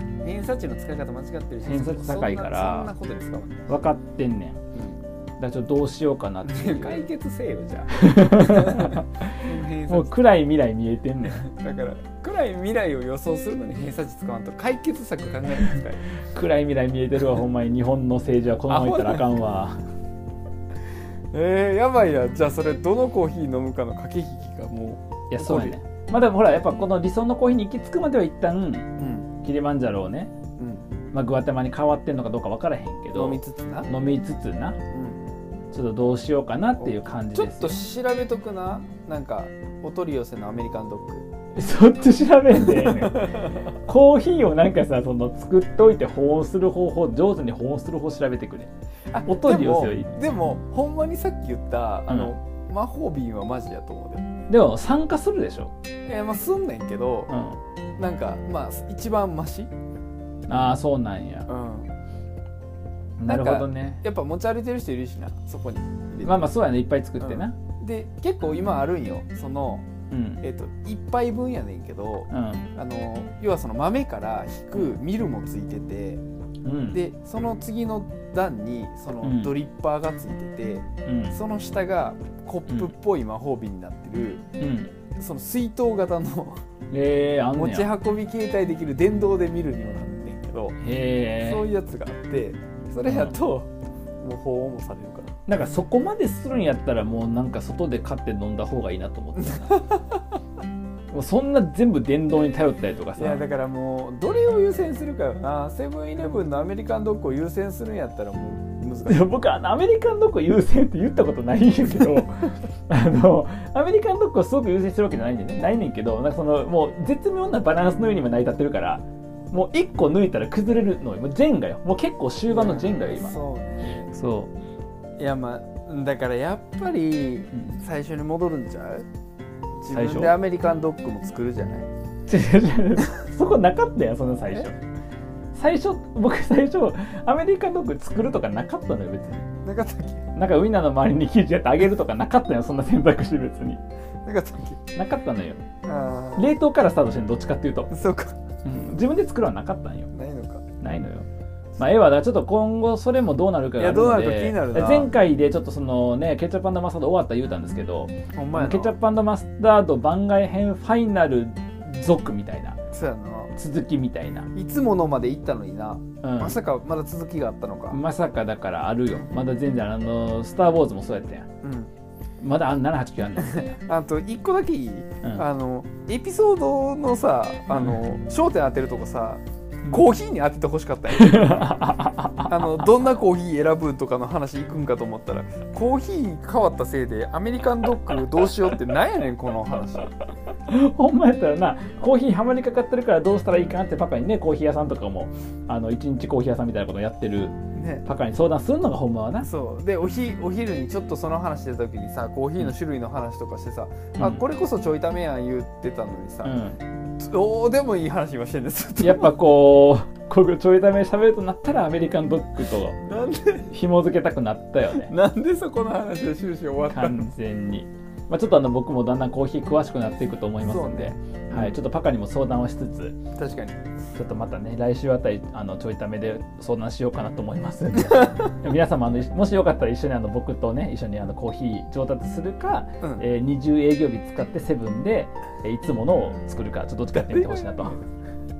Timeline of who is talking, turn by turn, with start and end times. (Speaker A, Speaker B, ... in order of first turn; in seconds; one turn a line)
Speaker A: 0.2-3.7
Speaker B: 1.6-2.9
Speaker B: 3.7-4.6
Speaker A: 4.7-5.0
Speaker B: 5.4-7.0
Speaker A: 6.4-10.2
Speaker B: 7.9-11.5
Speaker A: 11.3-16.0
Speaker B: 16.1-19.8
Speaker A: 18.7-19.3
Speaker A: 21.3-25.8
Speaker B: 25.3-30.4
Speaker A: 29.0-29.3
Speaker A: 30.6-30.9
Speaker B: 31.1-34.8
Speaker A: 33.1-33.9
Speaker A: 34.9-35.2
Speaker B: 35.7-37.8
Speaker A: 36.8-41.3
Speaker B: 41.5-48.7
Speaker A: 42.5-43.7
Speaker A: 49.1-54.2
Speaker B: 49.2-50.6
Speaker B: 52.1-52.4
Speaker B: 54.5-55.7
Speaker A: 56.0-57.3
Speaker B: 57.3-57.6
Speaker A: 58.0-59.7
Speaker B: 60.5-61.5
Speaker A: 61.5-61.9
Speaker B: 63.2-64.0
Speaker A: 63.2-66.5
Speaker B: 66.2-67.6
Speaker A: 67.2-69.9
Speaker B: 70.1-70.4
Speaker A: 70.4-76.2
Speaker B: 72.3-72.7
Speaker B: 76.6-77.0
Speaker A: 76.9-84.4
Speaker B: 79.2-79.5
Speaker B: 81.0-81.4
Speaker B: 82.7-82.9
Speaker B: 84.6-85.0
Speaker A: 85.1-86.6
Speaker B: 86.9-87.9
Speaker A: 87.5-90.8
Speaker B: 90.8-91.7
Speaker A: 91.4-93.7
Speaker B: 93.0-93.4
Speaker A: 94.2-95.3
Speaker B: 95.5-100.0
Speaker B: 101.1-103.5
Speaker A: 103.2-109.3
Speaker B: 109.0-124.5
Speaker A: 122.5-124.1
Speaker A: 125.2-129.1
Speaker B: 127.5-127.8
Speaker A: 129.8-131.9
Speaker B: 129.9-130.5
Speaker B: 132.3-134.8
Speaker B: 135.5-139.6
Speaker A: 139.6-140.2
Speaker B: 140.3-143.8
Speaker A: 144.2-144.8
Speaker B: 144.8-145.6
Speaker A: 145.8-146.5
Speaker B: 146.3-148.0
Speaker A: 147.9-148.4
Speaker B: 148.6-150.2
Speaker A: 150.1-150.7
Speaker B: 150.7-162.8
Speaker A: 153.8-155.1
Speaker A: 158.3-159.0
Speaker A: 162.9-163.5
Speaker B: 163.5-164.6
Speaker A: 164.5-168.0
Speaker B: 166.2-166.6
Speaker B: 167.9-171.5
Speaker A: 171.6-171.9
Speaker B: 172.4-173.8
Speaker A: 173.4-181.8
Speaker B: 175.2-175.4
Speaker B: 181.1-183.2
Speaker A: 182.5-190.1
Speaker B: 188.1-188.8
Speaker B: 190.7-199.5
Speaker A: 197.7-198.0
Speaker A: 199.4-206.6
Speaker B: 204.1-204.4
Speaker B: 206.4-206.8
Speaker A: 207.2-209.4
Speaker B: 209.0-215.2
Speaker A: 213.0-213.7
Speaker A: 215.0-217.3
Speaker B: 216.8-223.3
Speaker A: 220.6-221.8
Speaker A: 223.3-223.8
Speaker B: 224.1-238.0
Speaker A: 237.1-238.0